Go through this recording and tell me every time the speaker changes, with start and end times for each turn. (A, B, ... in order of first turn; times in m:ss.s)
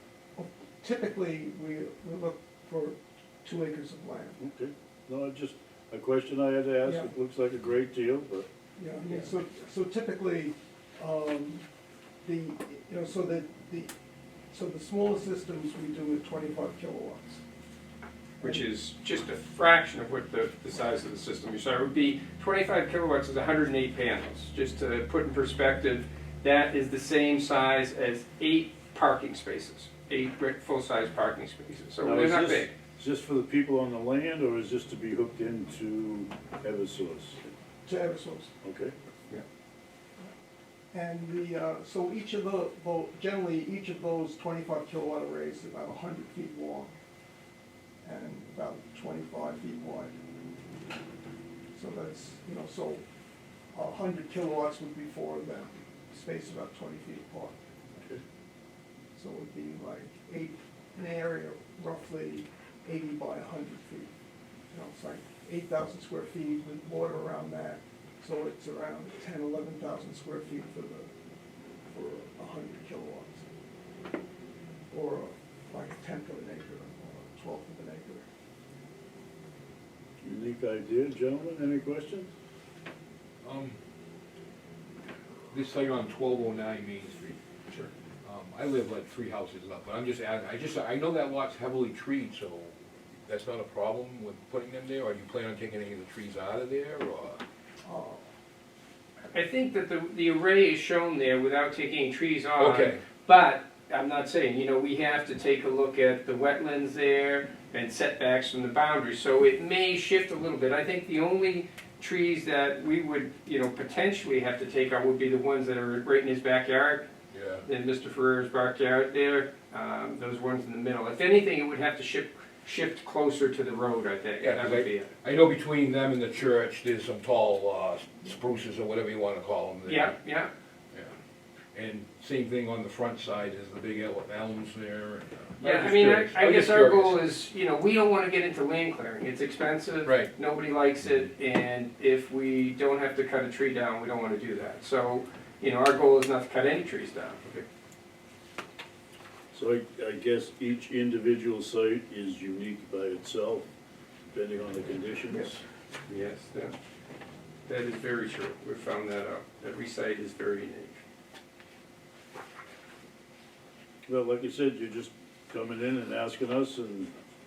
0:00.4-0:04.4 A
0:04.4-0:08.5 B
0:06.8-0:07.1 A
0:08.8-0:11.7 A
0:12.2-0:13.9 A
0:14.5-0:17.4 A
0:18.4-0:32.7 C
0:18.4-0:18.7 A
0:32.0-0:37.5 B
0:37.9-0:38.5 A
0:38.6-0:39.0 B
0:40.9-0:46.9 A
0:48.0-0:50.1 A
0:51.8-0:53.0 A
0:53.7-0:57.6 A
0:59.2-1:04.1 A
1:04.7-1:11.1 A
1:11.9-1:13.5 A
1:14.9-1:18.3 A
1:20.2-1:22.3 B
1:23.4-1:23.8 D
1:25.5-1:27.4 D
1:28.2-1:32.8 D
1:33.3-1:37.4 D
1:37.8-1:38.3 A
1:39.3-1:57.1 C
1:42.6-1:43.0 D
1:57.3-1:57.6 D
1:57.7-2:05.2 C
2:04.4-2:10.2 D
2:09.9-2:10.5 C
2:11.7-2:17.2 D
2:15.6-2:27.6 C
2:20.0-2:20.3 D
2:29.5-2:33.7 B
2:34.3-2:35.6 B
2:36.1-2:36.7 C
2:37.7-2:41.0 C
2:44.1-2:47.1 B